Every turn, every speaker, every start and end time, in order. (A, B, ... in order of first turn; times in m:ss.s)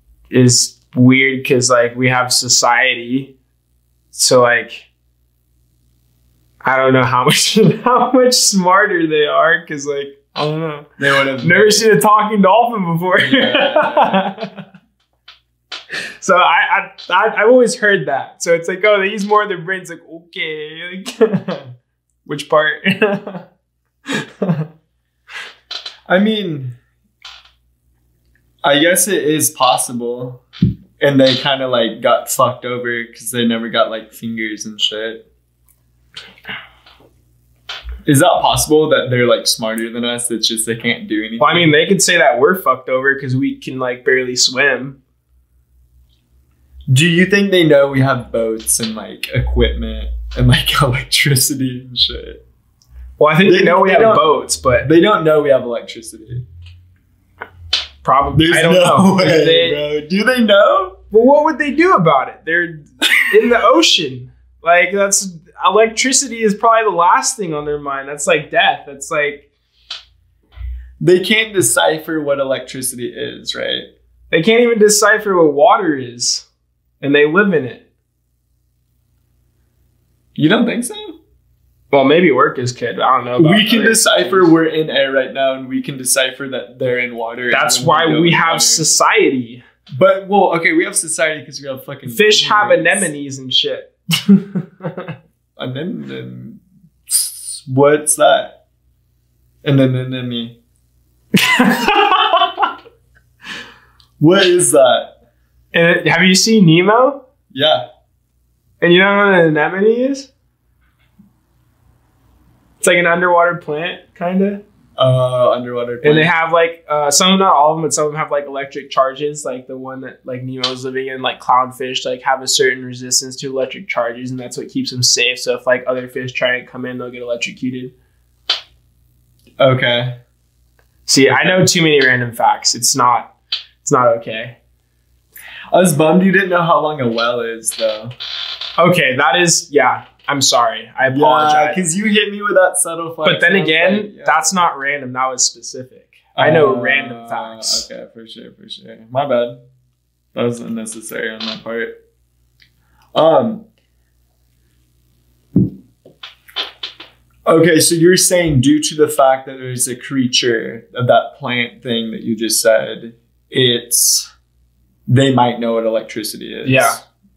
0:00.3-0:03.4 A
0:04.1-0:04.9 A
0:06.6-0:14.6 A
0:11.0-0:11.9 B
0:13.2-0:14.3 B
0:16.2-0:21.7 A
0:22.3-0:23.5 A
0:26.1-0:26.8 B
0:28.6-0:30.4 B
0:31.0-0:35.2 B
0:38.1-0:41.7 B
0:41.4-0:45.0 A
0:46.9-0:52.4 B
0:53.2-0:54.9 A
0:53.5-0:56.5 B
0:58.0-0:59.8 A
0:58.4-1:01.0 B
1:01.1-1:09.5 A
1:11.0-1:13.9 B
1:14.3-1:16.5 A
1:17.0-1:17.8 A
1:20.4-1:21.2 B
1:21.9-1:24.5 A
1:23.4-1:28.9 B
1:27.5-1:29.6 A
1:29.9-1:33.1 B
1:32.1-1:35.1 A
1:35.6-1:38.6 B
1:39.6-1:40.6 B
1:41.4-1:42.7 A
1:44.2-1:45.1 B
1:45.7-1:47.2 A
1:47.5-1:47.9 B
1:48.8-1:50.3 A
1:52.8-1:54.6 A
1:55.0-1:56.3 B
1:56.0-2:07.9 A
2:09.6-2:10.2 B
2:11.1-2:14.6 A
2:11.3-2:11.7 B
2:15.7-2:18.1 B
2:18.8-2:21.8 A
2:21.1-2:24.6 B
2:23.2-2:27.9 A
2:26.4-2:29.6 B
2:30.4-2:32.0 B
2:33.2-2:33.6 B
2:37.5-2:44.3 B
2:45.1-2:47.0 B
2:46.6-2:47.0 A